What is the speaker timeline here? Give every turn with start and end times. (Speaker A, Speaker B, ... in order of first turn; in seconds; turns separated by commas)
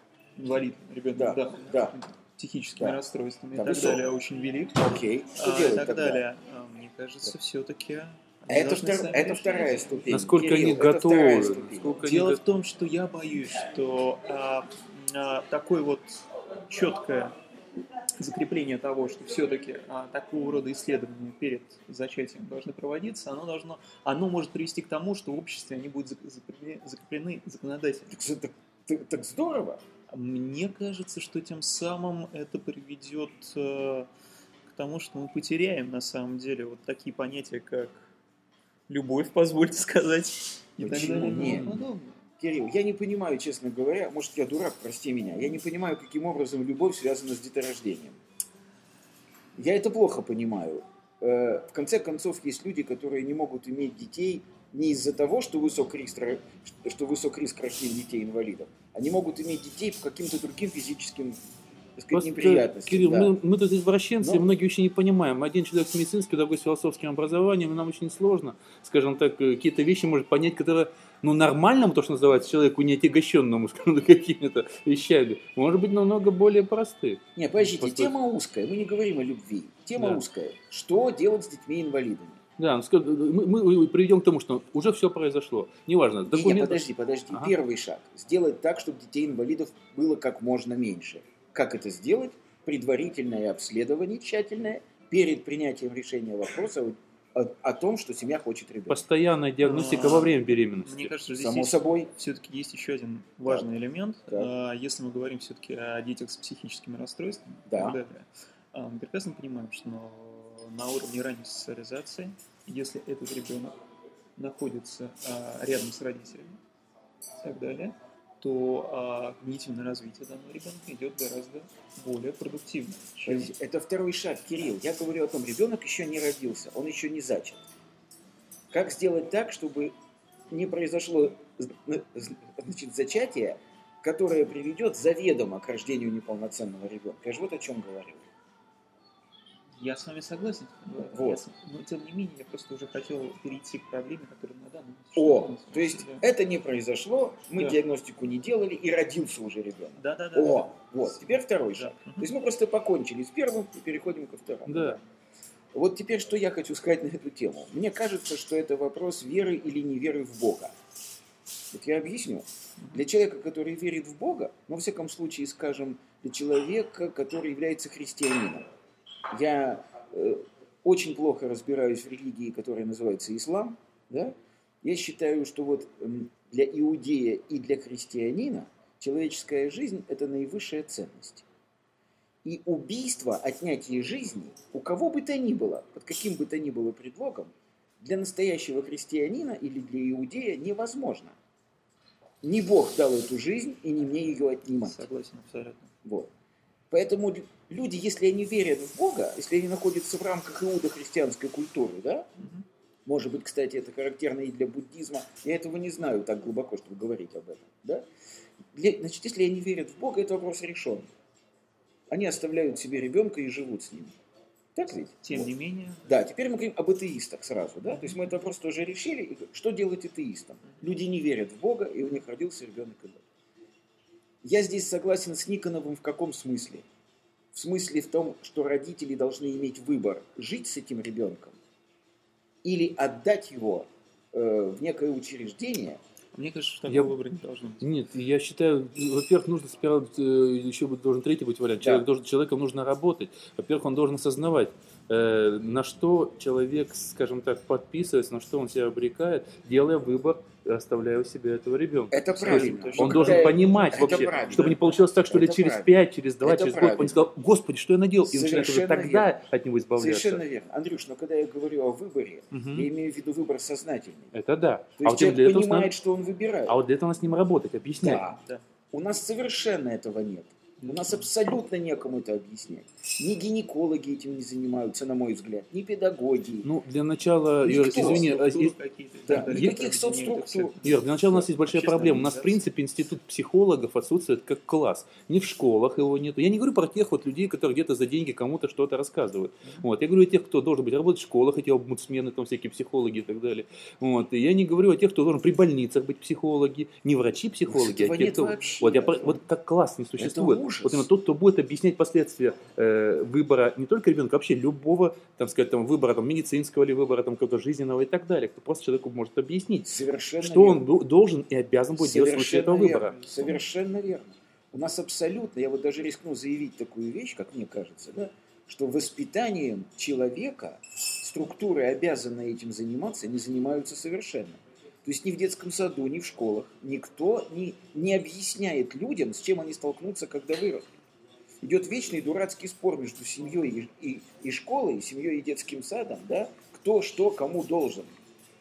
Speaker A: 0.4-4.8, Speaker B: 1.1-1.9, Speaker B: 3.5-4.0, Speaker B: 4.8-6.2, Speaker A: 5.3-10.2, Speaker B: 8.5-12.0, Speaker C: 10.1-12.4, Speaker A: 12.0-17.4, Speaker A: 18.2-28.1, Speaker B: 28.1-29.8, Speaker A: 30.1-34.1, Speaker A: 34.7-38.1, Speaker A: 38.9-42.2, Speaker B: 40.8-41.7, Speaker C: 40.9-41.8, Speaker B: 42.4-48.2, Speaker B: 49.5-61.4, Speaker B: 62.0-63.3, Speaker C: 62.1-78.1, Speaker B: 77.3-82.4, Speaker C: 80.0-80.2, Speaker C: 82.6-87.5, Speaker B: 86.2-99.0, Speaker C: 98.9-101.1, Speaker A: 99.6-113.8, Speaker B: 101.3-102.1, Speaker B: 107.7-108.0, Speaker A: 114.4-116.6, Speaker A: 117.4-123.5, Speaker B: 123.2-127.6, Speaker B: 128.7-129.9, Speaker B: 130.5-138.3, Speaker A: 139.8-146.2, Speaker B: 141.1-141.4, Speaker B: 145.2-155.0, Speaker A: 150.0-152.3, Speaker C: 154.7-155.0, Speaker B: 155.7-160.7, Speaker B: 161.7-168.7, Speaker A: 162.8-163.0, Speaker B: 169.3-181.4, Speaker B: 182.4-191.4, Speaker B: 192.4-195.0, Speaker A: 194.8-195.9, Speaker B: 196.0-196.3, Speaker B: 196.9-202.3, Speaker A: 202.4-202.6, Speaker B: 203.1-208.1, Speaker B: 208.7-211.1, Speaker B: 212.1-214.2, Speaker B: 214.7-215.5, Speaker A: 215.2-216.1, Speaker B: 216.1-223.2, Speaker A: 217.9-218.2, Speaker B: 224.4-226.8, Speaker B: 227.5-231.6, Speaker B: 232.6-236.0, Speaker A: 236.3-237.9, Speaker C: 236.9-237.2, Speaker C: 237.8-260.4, Speaker B: 241.8-242.1, Speaker B: 252.1-257.2, Speaker A: 252.4-254.8, Speaker B: 258.2-259.4, Speaker B: 259.9-264.3, Speaker C: 262.5-262.9, Speaker C: 264.3-265.9, Speaker B: 265.0-266.8, Speaker C: 266.7-268.2, Speaker B: 268.0-268.4, Speaker A: 268.3-268.6, Speaker B: 268.9-276.7, Speaker A: 270.8-271.1, Speaker C: 276.6-278.8, Speaker A: 277.6-282.6, Speaker B: 277.7-278.3, Speaker B: 279.3-280.8, Speaker C: 279.3-279.8, Speaker C: 280.8-313.1, Speaker B: 297.7-299.4, Speaker B: 300.2-301.1, Speaker B: 309.8-310.9, Speaker B: 312.0-330.9, Speaker A: 313.2-313.5, Speaker B: 331.6-338.2